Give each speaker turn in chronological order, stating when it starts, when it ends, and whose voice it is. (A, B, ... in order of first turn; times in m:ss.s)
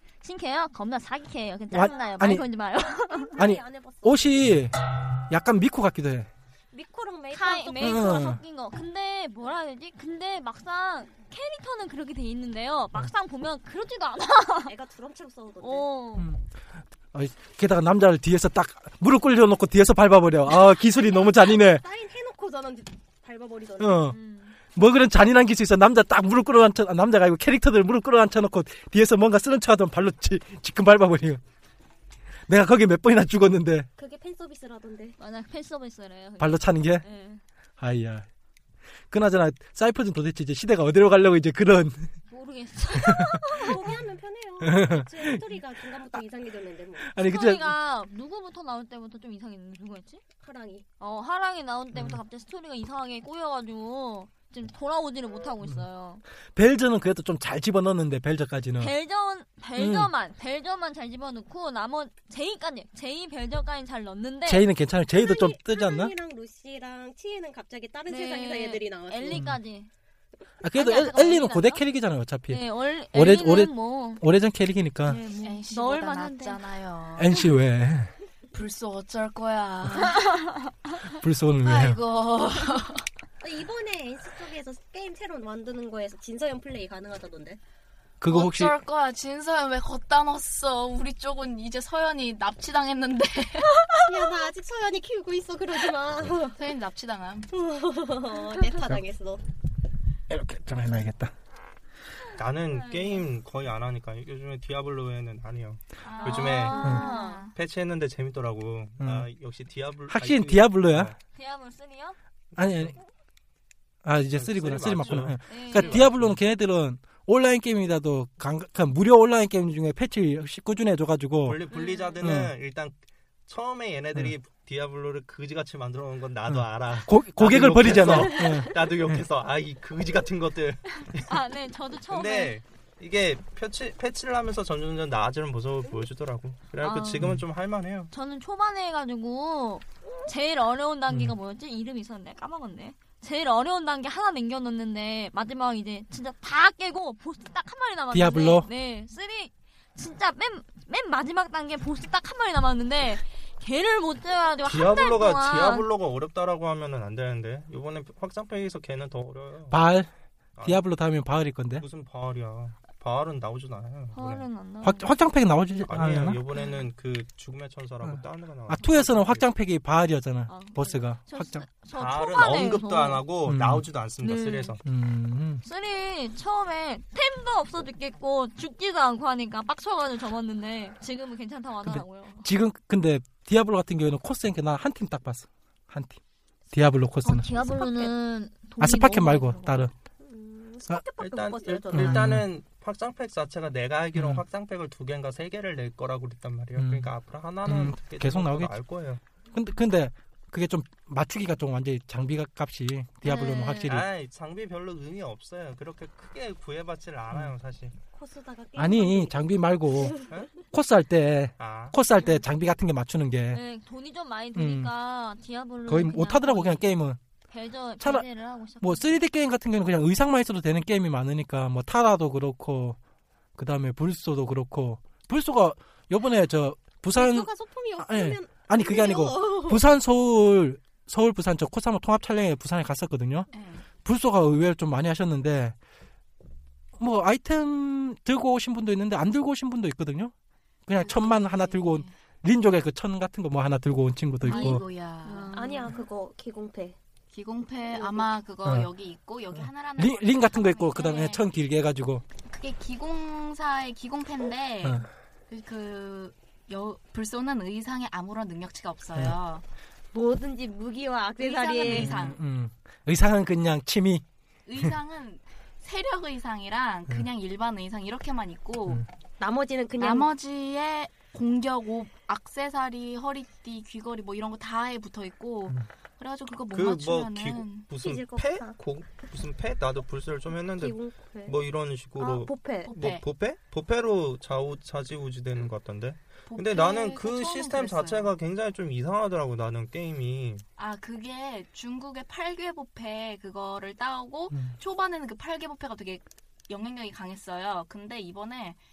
0:00.2-0:03.4 A
0:01.7-0:02.4 B
0:01.8-0:02.2 C
0:02.9-0:04.5 C
0:03.4-0:06.3 B
0:06.7-0:08.1 C
0:07.3-0:14.7 A
0:07.8-0:08.4 B
0:14.7-0:15.9 C
0:15.6-0:16.3 A
0:16.2-0:16.6 B
0:17.1-0:21.8 B
0:20.8-0:24.1 C
0:23.8-0:24.2 B
0:24.1-0:24.6 A
0:24.7-0:31.4 B
0:32.5-0:33.9 B
0:34.0-0:35.2 C
0:35.2-0:37.4 A
0:36.4-0:37.0 B
0:37.8-0:38.2 B
0:39.1-0:42.1 B
0:42.3-0:43.8 A
0:43.0-0:43.9 B
0:43.6-0:47.1 C
0:44.6-0:45.5 B
0:47.0-0:47.8 B
0:47.2-0:50.2 A
0:50.4-0:50.8 C
0:51.0-0:56.2 A
0:51.9-0:52.2 B
0:56.6-0:58.9 B
0:58.8-1:04.7 A
0:59.8-1:00.1 B
1:04.5-1:06.1 B
1:05.1-1:09.5 C
1:08.1-1:09.9 A
1:09.3-1:09.6 B
1:10.6-1:15.2 B
1:10.7-1:11.8 A
1:12.5-1:14.2 A
1:15.1-1:16.6 A
1:15.4-1:17.4 D
1:17.2-1:18.1 B
1:18.5-1:20.5 D
1:21.1-1:22.0 B
1:21.6-1:23.0 D
1:23.4-1:27.6 C
1:28.2-1:28.7 B
1:28.3-1:34.0 D
1:34.1-1:36.6 C
1:36.5-1:37.5 D
1:37.5-1:39.4 C
1:40.3-1:41.3 B
1:42.4-1:47.0 E
1:42.7-1:43.2 A
1:46.0-1:47.5 D
1:46.2-1:47.5 A
1:47.6-1:51.2 E
1:49.0-1:49.3 B
1:50.1-1:51.1 B
1:51.4-1:52.2 A
1:52.6-1:53.0 E
1:52.6-1:53.0 B
1:54.0-2:01.6 B
1:54.3-1:56.4 E
1:55.5-1:56.0 A
2:01.4-2:11.3 E
2:01.7-2:02.1 A
2:02.2-2:02.5 B
2:06.5-2:09.2 B
2:11.1-2:12.6 A
2:12.1-2:18.1 E
2:16.8-2:17.3 A
2:18.1-2:35.9 A
2:21.1-2:21.3 B
2:28.1-2:28.7 B
2:34.6-2:39.8 E
2:39.7-2:40.1 B
2:40.6-2:40.8 E
2:40.6-2:41.8 B
2:41.8-2:44.5 E
2:44.1-2:45.1 A
2:44.8-2:46.4 B
2:45.8-2:49.5 E
2:48.0-2:51.7 B
2:50.5-2:53.2 A
2:51.9-2:54.8 E
2:53.5-2:53.8 B
2:54.2-2:54.8 A
2:54.8-2:55.6 B
2:55.6-3:02.5 A
3:01.8-3:06.2 B
3:06.7-3:07.6 B
3:07.2-3:09.9 A
3:07.6-3:08.1 C
3:08.8-3:09.9 B
3:10.2-3:12.2 C
3:11.2-3:19.2 E
3:11.9-3:12.5 B
3:14.1-3:14.4 B
3:16.8-3:17.1 B
3:17.6-3:18.8 B
3:19.5-3:24.1 B
3:23.2-3:23.9 A
3:23.9-3:28.0 E
3:28.1-3:29.4 C
3:28.8-3:30.2 B
3:30.0-3:30.2 C
3:30.7-3:33.6 B
3:31.6-3:32.0 E
3:33.5-3:36.9 A
3:34.6-3:34.9 B
3:35.9-3:37.2 B
3:37.5-3:39.2 A
3:38.0-3:38.3 B
3:38.8-3:43.0 B
3:43.6-3:53.5 B
3:47.1-3:49.8 C
3:53.5-3:53.9 D
3:54.0-3:55.8 B
3:57.0-4:00.3 B
4:00.9-4:04.8 B
4:01.0-4:02.1 D
4:04.4-4:05.6 D
4:04.5-4:06.0 A
4:05.5-4:07.0 C
4:07.3-4:11.4 D
4:07.9-4:08.3 C
4:09.6-4:12.2 B
4:12.5-4:19.6 D
4:20.1-4:22.1 C
4:21.4-4:22.4 D
4:21.8-4:24.2 B
4:24.7-4:29.0 D
4:29.4-4:30.3 C
4:30.0-4:37.9 D
4:36.7-4:50.6 E
4:38.0-4:38.8 C
4:40.8-4:41.6 C
4:42.2-4:42.9 C
4:42.8-4:43.2 D
4:46.5-4:48.3 D
4:50.8-4:58.8 D